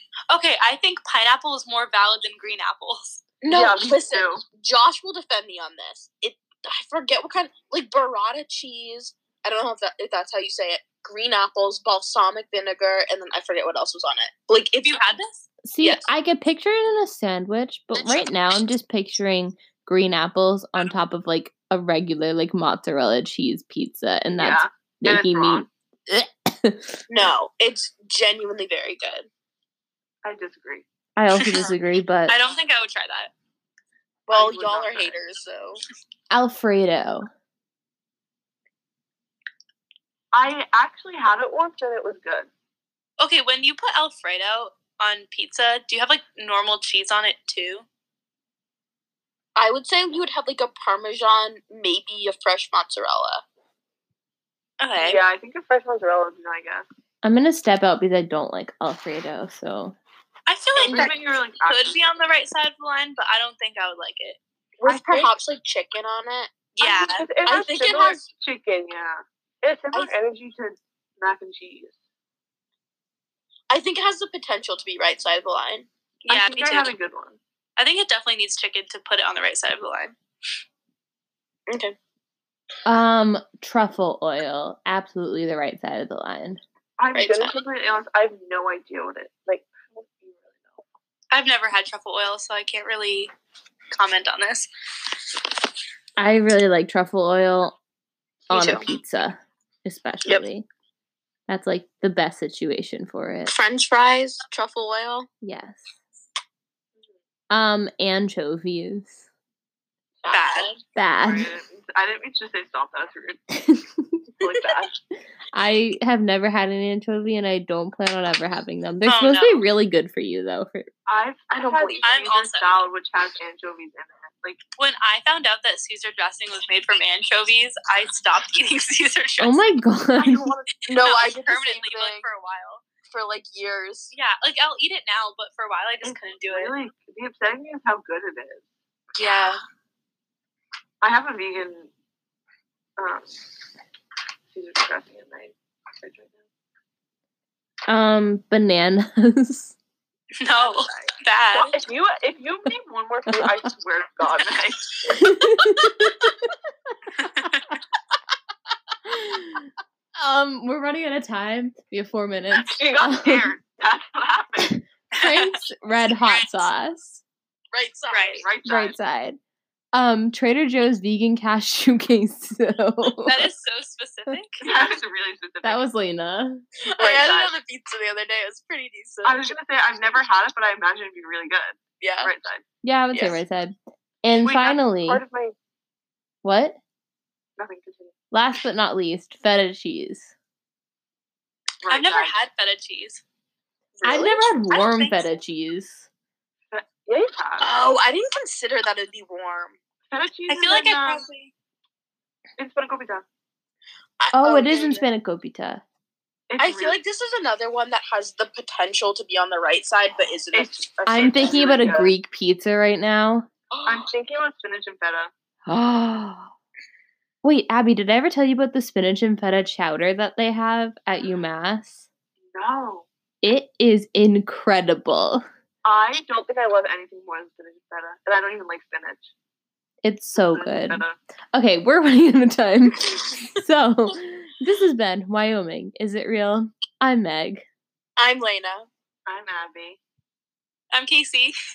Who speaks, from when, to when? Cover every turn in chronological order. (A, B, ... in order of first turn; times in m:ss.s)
0:00.3-0:03.3 A
0:03.4-0:15.0 B
0:03.5-0:04.4 C
0:14.8-0:15.4 A
0:15.6-0:27.3 D
0:24.4-0:25.7 C
0:27.1-0:29.3 B
0:30.2-0:30.8 C
0:31.2-0:32.4 D
0:31.4-0:31.7 A
0:32.3-0:33.3 A
0:34.3-0:35.8 B
0:34.3-0:35.1 C
0:36.3-0:37.3 D
0:40.3-0:42.5 C
0:43.2-0:47.8 A
0:49.6-0:53.4 B
0:54.8-0:55.2 A
0:55.0-0:56.8 C
0:57.2-1:00.0 D
1:00.4-1:04.4 A
1:00.8-1:02.1 C
1:00.8-1:01.1 B
1:04.8-1:06.6 B
1:04.8-1:05.3 C
1:06.8-1:07.2 A
1:06.8-1:12.0 C
1:07.4-1:08.2 B
1:13.7-1:15.9 B
1:16.2-1:17.4 C
1:16.3-1:17.0 A
1:17.8-1:20.1 A
1:21.7-1:22.0 B
1:22.8-1:26.6 D
1:27.0-1:30.8 C
1:27.1-1:27.5 B
1:31.3-1:33.3 A
1:33.9-1:34.7 A
1:36.2-1:37.8 D
1:38.5-1:38.8 B
1:38.5-1:40.6 D
1:41.5-1:43.5 D
1:43.5-1:45.3 B
1:45.4-1:45.9 D
1:47.5-1:49.2 D
1:50.2-1:53.4 C
1:50.3-1:50.7 A
1:50.4-1:50.7 B
1:51.0-1:51.5 D
1:53.5-1:54.2 D
1:54.4-1:54.9 C
1:55.5-2:00.9 D
1:59.0-1:59.6 A
2:01.0-2:04.6 C
2:01.5-2:02.1 B
2:02.0-2:02.8 A
2:04.8-2:09.8 A
2:09.4-2:10.5 D
2:10.2-2:10.7 C
2:10.9-2:12.2 B
2:10.9-2:12.9 A
2:13.0-2:14.1 B
2:14.1-2:16.7 A
2:16.0-2:18.6 C
2:19.2-2:19.6 A
2:21.0-2:21.9 C
2:23.0-2:23.3 C
2:24.5-2:26.4 C
2:27.9-2:29.8 D
2:30.4-2:31.7 A
2:30.6-2:35.1 C
2:35.0-2:36.3 D
2:37.2-2:37.8 A
2:39.1-2:43.5 D
2:42.5-2:44.8 C
2:44.6-2:47.2 D
2:45.2-2:45.5 A
2:47.7-2:48.4 B
2:48.1-2:48.4 A
2:48.4-2:49.0 C
2:48.6-2:49.4 D
2:49.9-2:53.5 D
2:53.2-2:54.6 A
2:54.6-2:55.8 C
2:55.6-2:56.6 D
2:56.9-2:59.5 B
2:56.9-2:57.5 C
2:59.2-3:02.6 C
3:02.0-3:02.3 B
3:02.8-3:05.2 D
3:03.1-3:03.4 B
3:04.4-3:05.5 C
3:06.4-3:06.8 D
3:07.6-3:08.1 C
3:08.3-3:10.3 D
3:11.8-3:12.3 C
3:11.9-3:13.2 A
3:14.0-3:14.5 B
3:14.0-3:16.0 D
3:14.7-3:15.3 A
3:16.7-3:17.7 C
3:17.6-3:19.8 B
3:20.1-3:21.2 C
3:20.5-3:21.5 A
3:22.6-3:23.2 C
3:24.2-3:25.0 B
3:24.3-3:25.8 D
3:26.5-3:27.0 C
3:26.6-3:31.8 B
3:30.5-3:32.1 C
3:31.0-3:33.5 D
3:33.7-3:34.1 B
3:33.8-3:35.3 C
3:35.7-3:36.5 D
3:37.4-3:42.0 D
3:42.5-3:43.1 C
3:43.4-3:45.5 D
3:45.8-3:49.3 C
3:50.0-3:57.6 D
3:50.5-3:51.2 C
3:58.2-3:58.9 B
3:59.3-4:00.0 C
4:00.9-4:01.5 A